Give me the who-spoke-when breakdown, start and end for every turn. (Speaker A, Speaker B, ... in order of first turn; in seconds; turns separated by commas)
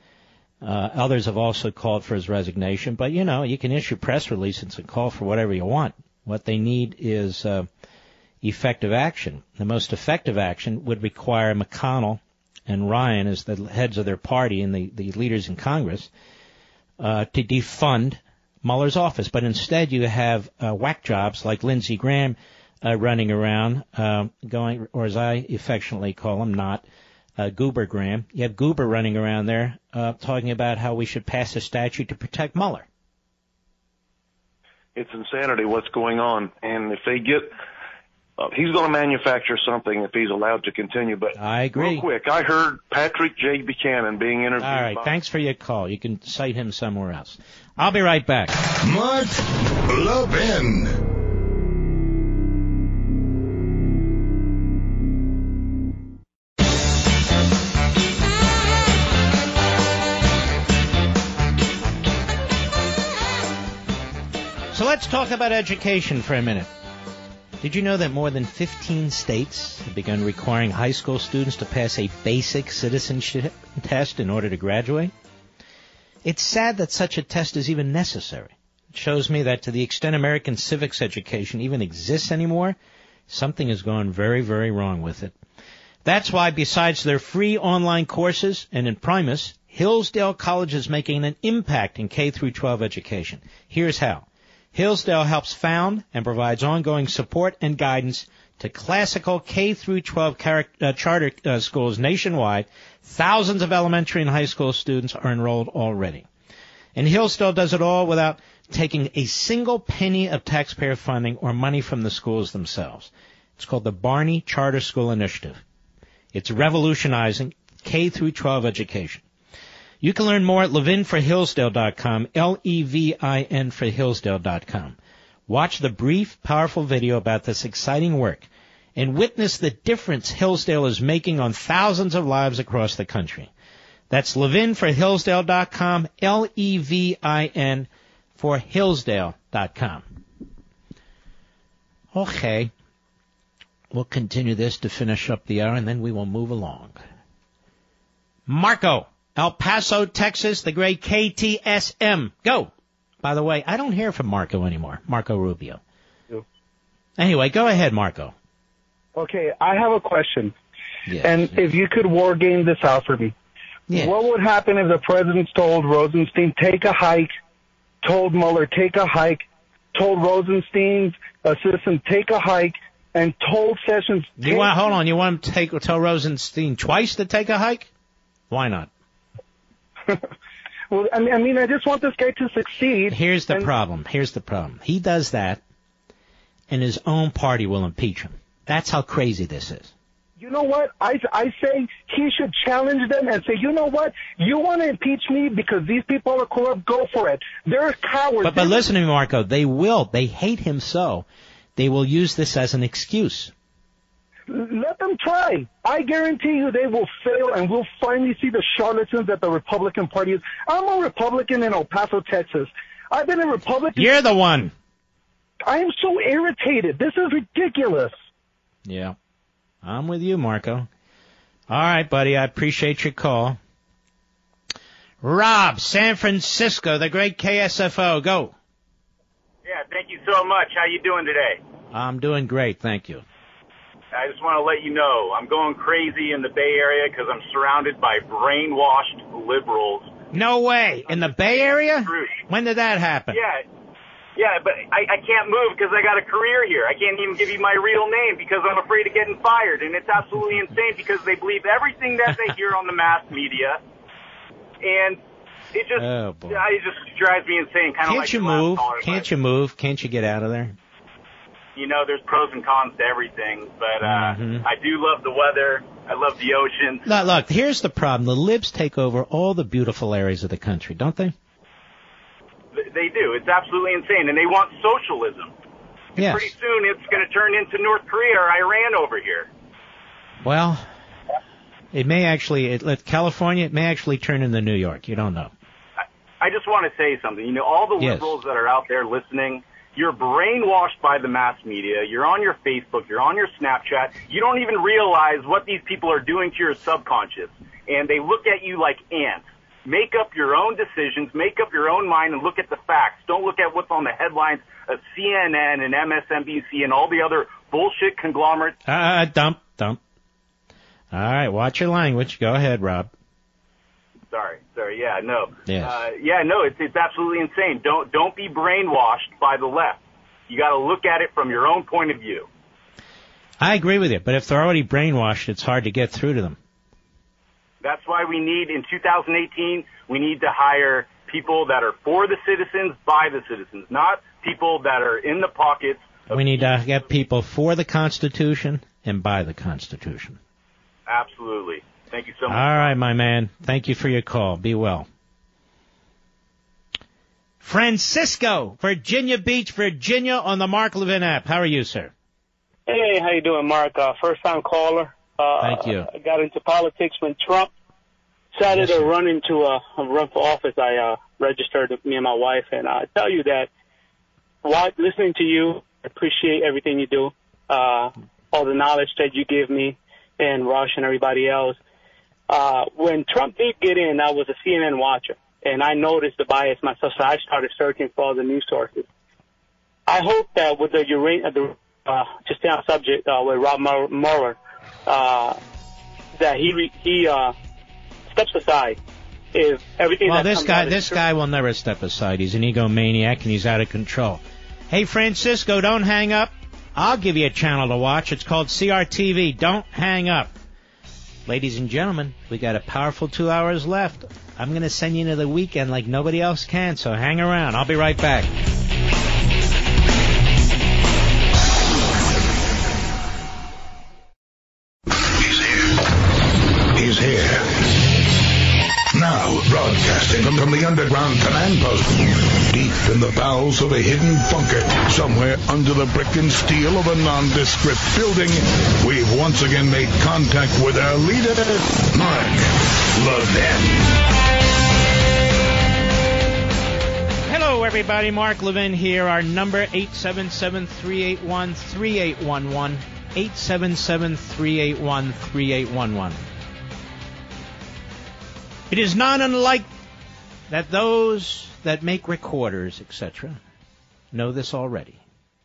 Speaker A: 0.6-7.7, Speaker A: 8.4-16.1, Speaker A: 17.0-26.8, Speaker A: 27.4-32.9, Speaker B: 34.9-37.5, Speaker B: 38.4-45.2, Speaker A: 41.4-42.0, Speaker A: 44.6-48.5, Speaker C: 48.8-51.0, Speaker A: 64.7-66.7, Speaker A: 67.6-75.1, Speaker A: 76.2-82.8, Speaker A: 83.3-85.3, Speaker A: 86.0-106.3, Speaker A: 107.0-115.6, Speaker A: 116.3-119.2, Speaker A: 120.0-125.0, Speaker A: 125.5-133.5, Speaker A: 134.1-140.1, Speaker A: 142.1-142.7, Speaker A: 143.9-147.0, Speaker A: 148.5-152.7, Speaker A: 153.2-155.8, Speaker A: 157.2-158.3, Speaker D: 159.2-160.5, Speaker A: 161.1-161.6, Speaker D: 161.2-163.3, Speaker A: 163.9-164.2, Speaker D: 163.9-167.3, Speaker D: 168.0-174.7, Speaker A: 174.4-177.9, Speaker A: 178.5-178.9, Speaker D: 180.9-183.7, Speaker A: 183.1-185.6, Speaker A: 186.7-189.9, Speaker D: 190.4-198.8, Speaker A: 198.4-201.2, Speaker A: 201.8-203.5, Speaker D: 204.5-214.1, Speaker A: 213.9-214.7, Speaker D: 215.6-218.2, Speaker A: 218.8-219.2, Speaker A: 219.8-220.9, Speaker A: 221.7-223.6, Speaker A: 225.2-228.5, Speaker E: 229.7-231.6, Speaker A: 231.9-233.2, Speaker E: 234.1-240.1, Speaker A: 240.3-243.4, Speaker E: 241.1-242.4, Speaker E: 243.3-243.6, Speaker E: 244.3-253.8, Speaker E: 254.8-255.2, Speaker E: 255.7-259.3, Speaker A: 256.0-256.6, Speaker A: 258.1-260.8, Speaker E: 261.8-267.1, Speaker A: 264.0-264.7, Speaker A: 267.0-271.3, Speaker E: 272.7-275.5, Speaker E: 276.1-279.5, Speaker A: 276.2-276.5, Speaker A: 280.4-280.9, Speaker A: 281.9-285.5, Speaker E: 286.4-308.7, Speaker A: 288.0-288.3, Speaker A: 308.9-310.0, Speaker A: 311.1-313.1, Speaker E: 314.3-322.5, Speaker A: 315.6-316.0, Speaker A: 323.6-326.6, Speaker E: 327.8-336.8, Speaker A: 336.3-340.4, Speaker E: 341.1-342.9, Speaker A: 342.5-345.1, Speaker A: 347.6-352.1, Speaker F: 352.9-357.7, Speaker A: 355.6-356.1, Speaker F: 358.5-363.7, Speaker A: 358.7-359.1, Speaker F: 364.6-371.8, Speaker F: 372.5-379.1, Speaker F: 380.1-385.6, Speaker F: 386.4-387.5, Speaker F: 388.3-389.0, Speaker F: 389.5-391.2, Speaker A: 390.2-400.5, Speaker A: 401.5-408.5, Speaker C: 415.2-416.0, Speaker C: 416.9-417.8, Speaker C: 419.1-434.1, Speaker A: 437.4-446.4, Speaker A: 448.9-449.9, Speaker A: 450.7-453.6, Speaker A: 454.3-455.2